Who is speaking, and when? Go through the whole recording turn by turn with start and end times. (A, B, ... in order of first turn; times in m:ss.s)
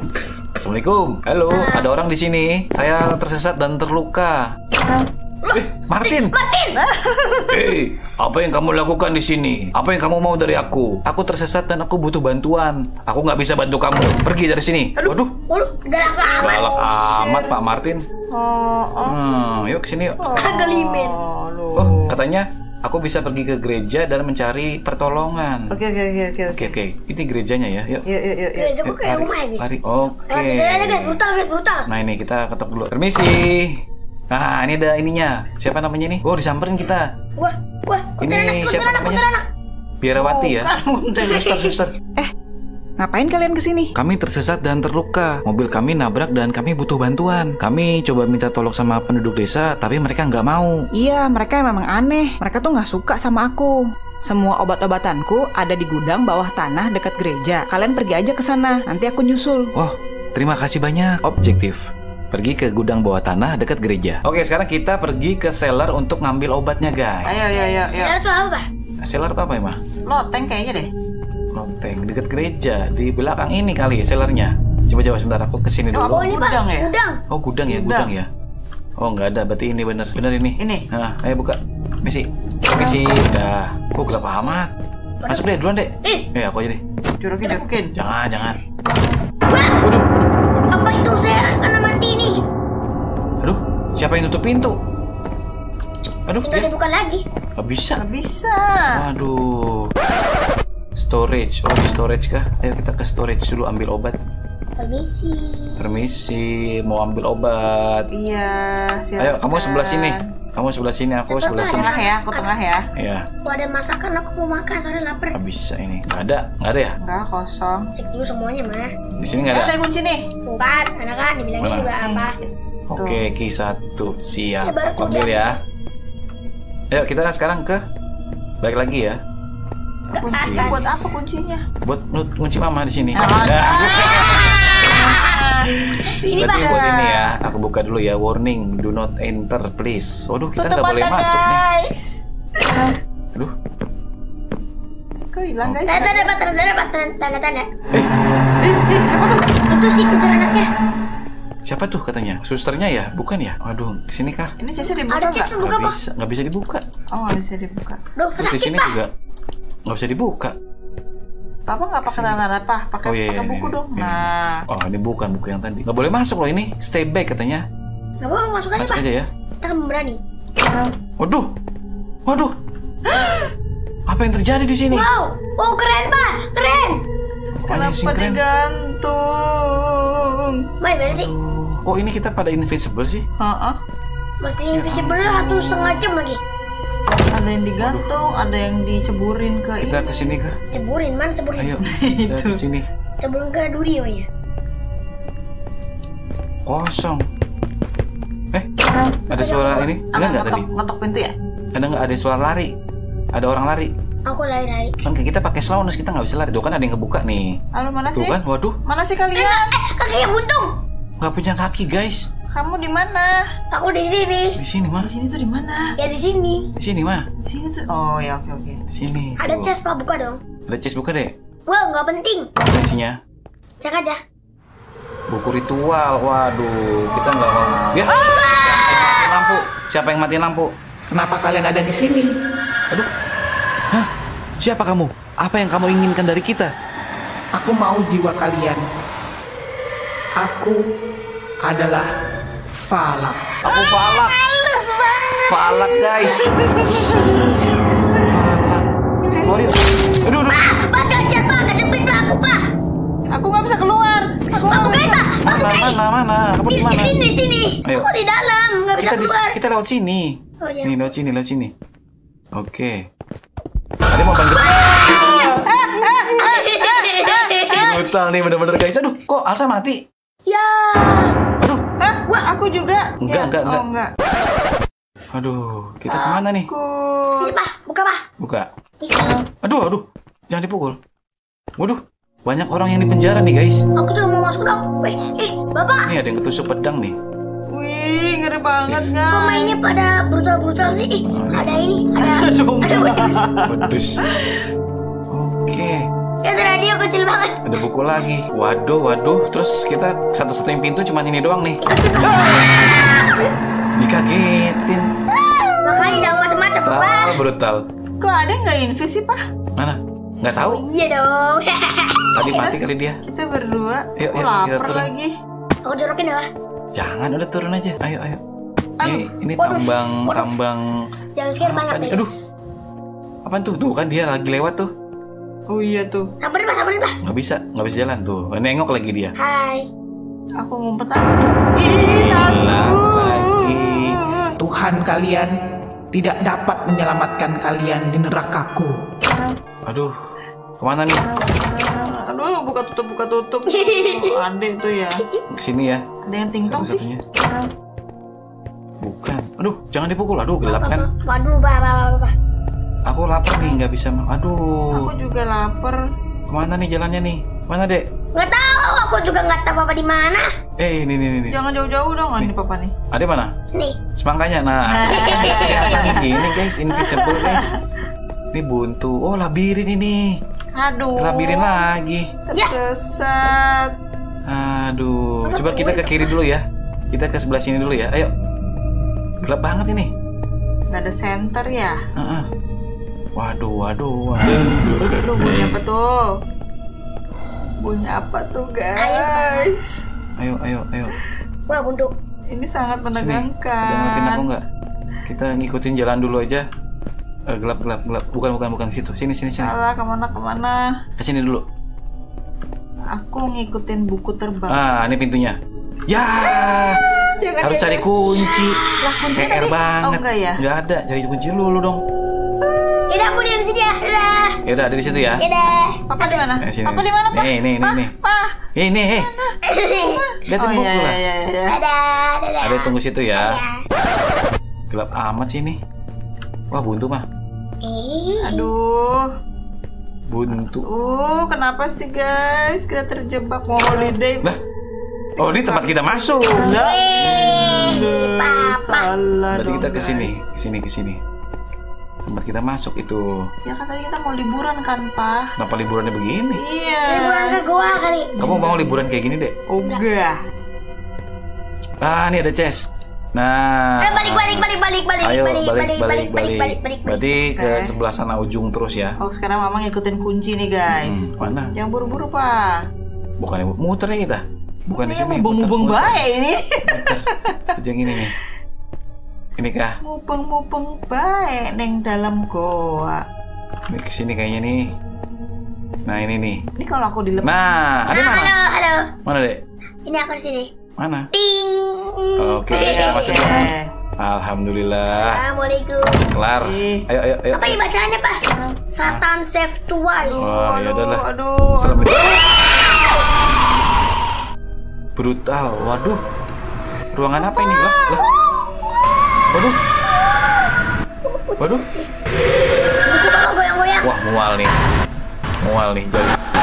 0:00.6-0:04.5 A
0:01.5-0:01.9 B
0:05.4-0:06.8 B
0:05.5-0:06.4 A
0:06.8-0:07.7 C
0:07.5-0:15.3 A
0:15.5-0:17.0 B
0:16.4-0:18.0 A
0:17.0-0:17.6 C
0:18.3-0:19.2 C
0:19.0-0:20.5 A
0:20.2-0:22.2 C
0:20.4-0:21.2 B
0:21.8-0:25.8 A
0:25.7-0:26.7 C
0:26.5-0:28.0 A
0:28.1-0:28.7 C
0:28.6-0:29.7 B
0:28.8-0:31.2 A
0:30.3-0:31.9 B
0:31.9-0:33.8 A
0:34.3-0:37.0 A
0:37.4-0:39.4 B
0:38.2-0:39.2 A
0:40.0-0:40.7 A
0:40.2-0:41.5 C
0:41.3-0:41.9 A
0:44.0-0:50.8 A
0:52.1-0:52.7 C
0:52.7-0:53.2 D
0:54.9-0:56.5 D
0:57.8-0:58.4 D
0:59.8-1:07.6 A
1:07.2-1:08.2 C
1:07.5-1:08.6 B
1:09.0-1:09.8 A
1:10.1-1:10.9 C
1:11.5-1:16.2 A
1:15.9-1:16.9 C
1:16.1-1:17.2 B
1:17.3-1:18.3 A
1:17.7-1:18.1 C
1:19.0-1:24.7 A
1:20.6-1:20.9 C
1:24.0-1:24.6 B
1:25.3-1:26.8 A
1:27.2-1:28.0 C
1:28.0-1:28.6 A
1:29.5-1:29.8 B
1:29.8-1:30.9 A
1:30.7-1:32.5 B
1:33.4-1:34.8 A
1:36.3-1:36.7 A
1:36.4-1:37.2 B
1:37.6-1:38.0 A
1:38.0-1:39.0 C
1:38.9-1:39.9 A
1:41.0-1:44.2 A
1:44.8-1:46.0 B
1:45.8-1:48.1 A
1:48.1-1:50.2 C
1:49.2-1:52.0 A
1:51.3-1:52.5 B
1:51.6-1:52.8 C
1:53.0-1:53.2 A
1:53.4-1:55.4 B
1:55.3-1:57.0 A
1:57.0-1:57.9 C
1:58.0-1:58.9 B
1:59.2-1:59.8 A
1:59.3-2:00.3 C
2:00.5-2:02.3 B
2:01.6-2:01.9 A
2:02.0-2:03.2 C
2:02.9-2:05.6 A
2:04.6-2:05.4 B
2:06.9-2:07.8 A
2:08.6-2:09.2 A
2:10.1-2:10.9 B
2:10.2-2:11.6 C
2:10.3-2:11.1 A
2:11.8-2:14.5 A
2:13.2-2:17.3 C
2:14.0-2:15.4 B
2:16.2-2:16.7 B
2:16.4-2:21.6 A
2:20.6-2:22.9 C
2:25.3-2:26.4 C
2:25.9-2:27.7 B
2:28.6-2:29.4 C
2:29.7-2:30.7 B
2:31.7-2:34.5 A
2:34.6-2:35.5 C
2:35.1-2:36.0 B
2:35.6-2:36.8 A
2:37.1-2:38.0 C
2:38.2-2:39.0 B
2:38.4-2:39.1 A
2:39.9-2:40.6 A
2:41.7-2:44.6 C
2:42.1-2:42.4 A
2:43.0-2:47.6 A
2:48.2-2:49.0 B
2:48.8-2:49.3 A
2:49.6-2:50.2 B
2:51.2-2:51.5 A
2:52.3-2:52.5 A
2:53.1-2:53.5 C
2:54.1-2:55.1 A
2:54.9-2:57.0 B
2:57.6-2:58.4 A
2:57.7-3:00.6 C
3:00.8-3:01.3 B
3:01.1-3:03.2 A
3:03.4-3:03.8 C
3:04.4-3:06.4 B
3:04.7-3:05.9 A
3:07.3-3:10.3 C
3:07.8-3:08.1 A
3:09.8-3:10.6 A
3:10.7-3:11.7 B
3:11.6-3:12.8 A
3:11.8-3:12.6 C
3:13.2-3:14.3 B
3:16.7-3:17.2 A
3:19.3-3:19.9 B
3:19.3-3:20.6 A
3:20.1-3:21.3 C
3:21.7-3:22.7 A
3:23.3-3:23.9 A
3:24.3-3:25.0 B
3:25.0-3:27.5 A
3:27.7-3:29.6 C
3:28.2-3:28.8 A
3:29.4-3:30.7 B
3:31.2-3:32.3 A
3:32.5-3:33.4 C
3:33.7-3:34.6 B
3:34.6-3:35.1 A
3:35.0-3:35.9 C
3:36.0-3:36.7 B
3:36.8-3:37.3 A
3:37.5-3:38.8 C
3:38.9-3:39.7 A
3:39.4-3:40.4 B
3:40.7-3:41.3 A
3:41.7-3:42.5 B
3:42.7-3:43.2 A
3:43.8-3:44.2 B
3:45.3-3:50.7 A
3:48.1-3:49.6 B
3:51.1-3:52.3 D
3:54.6-3:56.7 A
3:57.5-3:58.8 D
4:00.4-4:00.8 D
4:01.6-4:02.1 D
4:02.7-4:03.4 D
4:03.6-4:04.4 A
4:03.7-4:08.3 C
4:05.4-4:06.5 A
4:08.3-4:08.9 A
4:09.2-4:09.7 C
4:09.4-4:10.7 A
4:10.5-4:12.6 B
4:13.3-4:15.2 C
4:14.5-4:16.0 B
4:15.4-4:17.2 A
4:16.7-4:19.6 B
4:19.0-4:21.7 A
4:20.6-4:21.1 B
4:22.5-4:23.0 A
4:24.1-4:24.8 A
4:24.5-4:25.6 B
4:25.1-4:27.8 C
4:26.4-4:28.0 B
4:27.7-4:30.0 A
4:30.5-4:31.3 B
4:32.0-4:34.1 C
4:33.2-4:33.8 A
4:35.3-4:36.7 A
4:36.1-4:36.4 B
4:36.7-4:37.5 C
4:37.4-4:38.2 B
4:38.4-4:38.7 A
4:39.0-4:39.4 B
4:39.6-4:41.0 A
4:41.8-4:43.8 A
4:44.0-4:46.1 B
4:46.1-4:47.2 A
4:47.7-4:49.9 C
4:48.7-4:49.1 A
4:49.3-4:53.4 B
4:51.3-4:51.8 A
4:52.2-4:54.6 C
4:53.6-4:54.2 A
4:55.3-4:56.0 A
4:56.4-4:57.6 B
4:57.6-5:02.5 A
5:01.8-5:03.4 B
5:02.3-5:02.7 C
5:04.0-5:05.1 A
5:05.7-5:06.2 C
5:05.8-5:07.4 B
5:06.8-5:07.8 A
5:08.2-5:09.4 C
5:09.8-5:10.8 A
5:10.6-5:12.6 B
5:12.4-5:13.2 A
5:12.5-5:15.3 C
5:14.2-5:15.1 A
5:15.8-5:16.5 B
5:16.9-5:18.4 A
5:19.0-5:19.3 C
5:19.0-5:20.9 A
5:19.6-5:20.5 B
5:21.4-5:22.3 B
5:21.6-5:22.3 A
5:23.4-5:24.9 A
5:25.7-5:26.3 C
5:26.4-5:27.1 B
5:27.2-5:29.4 A
5:29.4-5:29.9 B
5:30.6-5:34.5 C
5:31.8-5:34.2 A
5:34.6-5:35.5 D
5:36.1-5:38.9 D
5:39.8-5:40.1 A
5:40.8-5:41.3 A
5:41.8-5:45.2 C
5:43.7-5:44.4 B
5:45.5-5:46.0 A
5:46.3-5:47.0 C
5:46.6-5:47.2 A
5:49.0-5:51.1 A
5:50.8-5:52.3 B
5:53.1-5:55.1 A
5:54.9-5:56.0 C
5:56.5-5:58.0 A
5:58.4-6:00.5 B
6:00.8-6:01.6 A
6:01.5-6:02.9 C
6:03.1-6:03.5 A
6:04.2-6:07.7 A
6:04.9-6:07.8 C
6:05.1-6:06.3 B
6:08.5-6:10.3 A
6:10.7-6:11.8 C
6:11.2-6:12.3 A
6:12.5-6:13.9 C
6:14.5-6:18.3 A
6:15.4-6:16.3 B
6:19.4-6:20.1 A
6:20.9-6:22.0 C
6:22.2-6:22.5 A
6:23.4-6:25.2 A
6:25.2-6:26.2 C
6:27.8-6:29.9 C
6:29.0-6:29.7 B
6:30.4-6:31.1 A
6:31.7-6:32.1 B
6:32.5-6:34.5 C
6:33.2-6:34.6 A
6:35.3-6:36.6 A
6:37.5-6:39.7 A
6:39.5-6:40.8 C
6:41.2-6:41.6 A
6:43.1-6:44.8 C
6:44.7-6:45.6 A
6:46.1-6:47.0 A
6:46.4-6:50.6 C
6:47.6-6:52.0 A
6:52.6-6:53.0 C
6:53.1-6:54.6 B
6:54.6-6:55.4 A
6:55.4-6:56.5 B
6:56.1-6:58.6 C
6:56.6-6:58.1 A
6:58.8-6:59.3 A
6:59.1-7:01.8 C
6:59.7-7:00.3 B
7:00.5-7:01.2 A
7:01.7-7:03.8 B
7:02.6-7:03.6 A
7:04.9-7:05.8 A
7:06.7-7:07.3 A
7:07.8-7:08.7 B
7:08.4-7:09.3 C
7:10.3-7:10.9 A
7:10.8-7:14.5 C
7:15.4-7:15.9 C
7:15.4-7:16.7 A
7:16.6-7:20.4 C
7:16.6-7:19.1 B
7:17.4-7:17.9 A
7:19.5-7:21.2 A
7:22.3-7:23.4 A
7:23.7-7:25.5 C
7:25.6-7:26.6 A
7:26.6-7:27.6 C
7:27.0-7:28.3 B
7:28.3-7:29.0 C
7:28.4-7:29.5 A
7:29.7-7:30.4 C
7:32.0-7:34.7 A
7:34.0-7:37.2 B
7:35.2-7:39.2 A
7:37.6-7:37.9 C
7:39.2-7:42.7 C
7:40.9-7:41.7 A
7:43.4-7:46.2 A
7:45.0-7:48.2 C
7:46.9-7:47.2 A
7:47.8-7:48.3 A
7:49.6-7:50.0 A
7:50.0-7:53.2 C
7:53.9-7:54.9 A
7:56.1-7:56.6 A
7:56.8-7:57.5 C
7:57.4-7:58.5 A
7:58.1-7:59.1 B
7:59.3-7:59.6 A
8:00.1-8:00.7 B
8:01.0-8:01.3 A
8:01.3-8:03.5 B
8:02.4-8:03.6 A
8:02.7-8:03.9 C
8:04.2-8:05.4 A
8:05.1-8:06.3 B
8:06.3-8:07.8 A
8:06.6-8:07.1 C
8:07.5-8:08.4 B
8:08.9-8:10.5 B
8:10.2-8:12.1 C
8:10.4-8:11.2 A
8:11.8-8:12.4 A
8:12.1-8:13.2 B
8:15.2-8:16.2 A
8:17.1-8:18.3 A
8:17.6-8:19.1 B
8:19.5-8:19.8 A
8:20.2-8:20.6 B
8:21.2-8:22.1 B
8:21.6-8:21.8 A
8:23.0-8:24.1 B
8:24.0-8:24.7 A
8:25.6-8:26.4 A